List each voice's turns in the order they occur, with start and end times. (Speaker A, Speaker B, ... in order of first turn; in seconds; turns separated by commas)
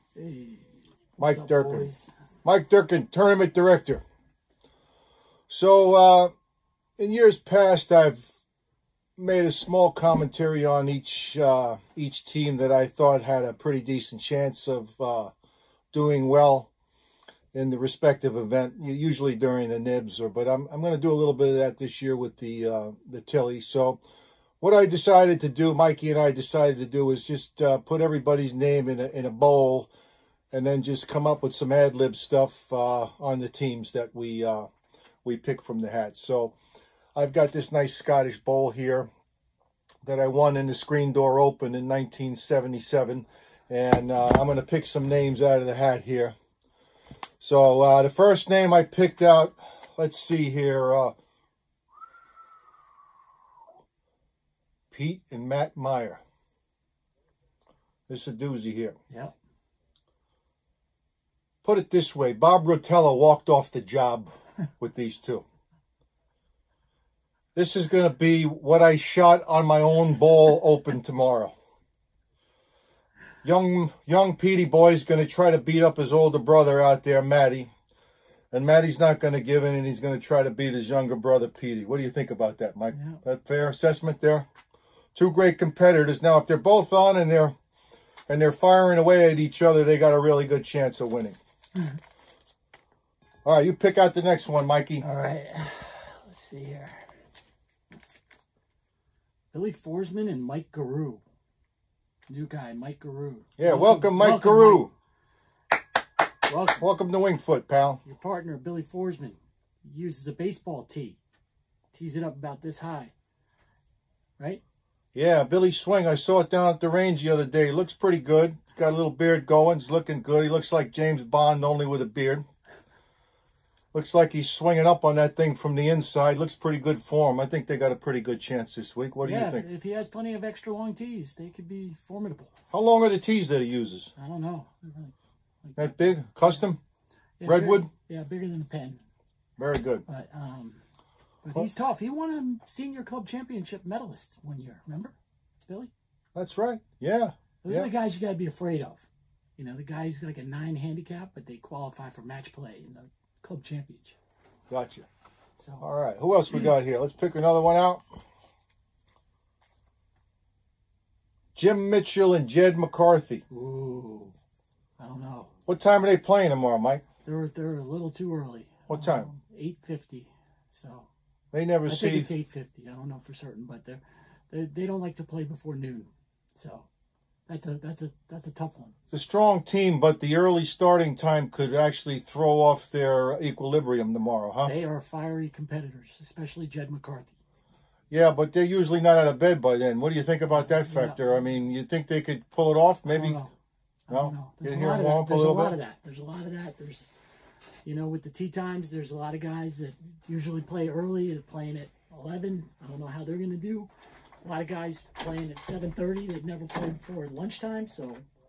Speaker A: 0.1-2.1, Speaker B: 1.2-1.9, Speaker B: 2.4-4.0, Speaker B: 5.5-6.3, Speaker B: 7.0-8.3, Speaker B: 9.2-15.3, Speaker B: 15.9-16.7, Speaker B: 17.5-24.0, Speaker B: 24.6-29.9, Speaker B: 30.5-34.7, Speaker B: 35.2-36.5, Speaker B: 37.1-39.1, Speaker B: 40.0-46.4, Speaker B: 47.4-51.1, Speaker B: 54.9-56.2, Speaker B: 58.1-59.0, Speaker B: 61.6-65.4, Speaker B: 67.5-71.5, Speaker B: 73.4-77.7, Speaker B: 78.5-84.5, Speaker A: 82.9-83.2, Speaker B: 85.2-87.5, Speaker B: 88.3-91.4, Speaker B: 93.5-95.1, Speaker A: 95.0-97.0, Speaker A: 99.5-101.2, Speaker A: 102.3-104.9, Speaker B: 103.6-104.9, Speaker A: 106.5-106.8, Speaker B: 106.8-108.0, Speaker A: 108.0-111.2, Speaker A: 111.9-113.1, Speaker B: 115.1-122.5, Speaker B: 123.9-129.6, Speaker A: 129.2-132.5, Speaker B: 132.7-134.1, Speaker A: 134.2-136.6, Speaker B: 135.8-136.8, Speaker A: 137.4-139.0, Speaker B: 137.4-137.9, Speaker B: 139.6-140.1, Speaker A: 140.1-140.8, Speaker A: 141.4-145.2, Speaker A: 145.7-145.9, Speaker B: 146.3-147.9, Speaker A: 147.6-149.1, Speaker A: 149.6-154.2, Speaker B: 154.7-155.1, Speaker A: 155.6-155.8, Speaker B: 155.8-158.0, Speaker B: 161.6-163.4, Speaker A: 163.5-164.3, Speaker A: 165.0-165.5, Speaker B: 165.7-167.0, Speaker A: 167.2-171.1, Speaker B: 168.9-169.3, Speaker B: 171.5-172.3, Speaker A: 171.9-176.9, Speaker A: 177.5-178.9, Speaker B: 179.1-184.7, Speaker A: 184.6-187.3, Speaker B: 188.1-193.4, Speaker A: 190.5-191.6, Speaker A: 193.1-193.5, Speaker A: 194.1-197.1, Speaker B: 194.1-195.8, Speaker A: 197.8-203.9, Speaker A: 204.4-208.2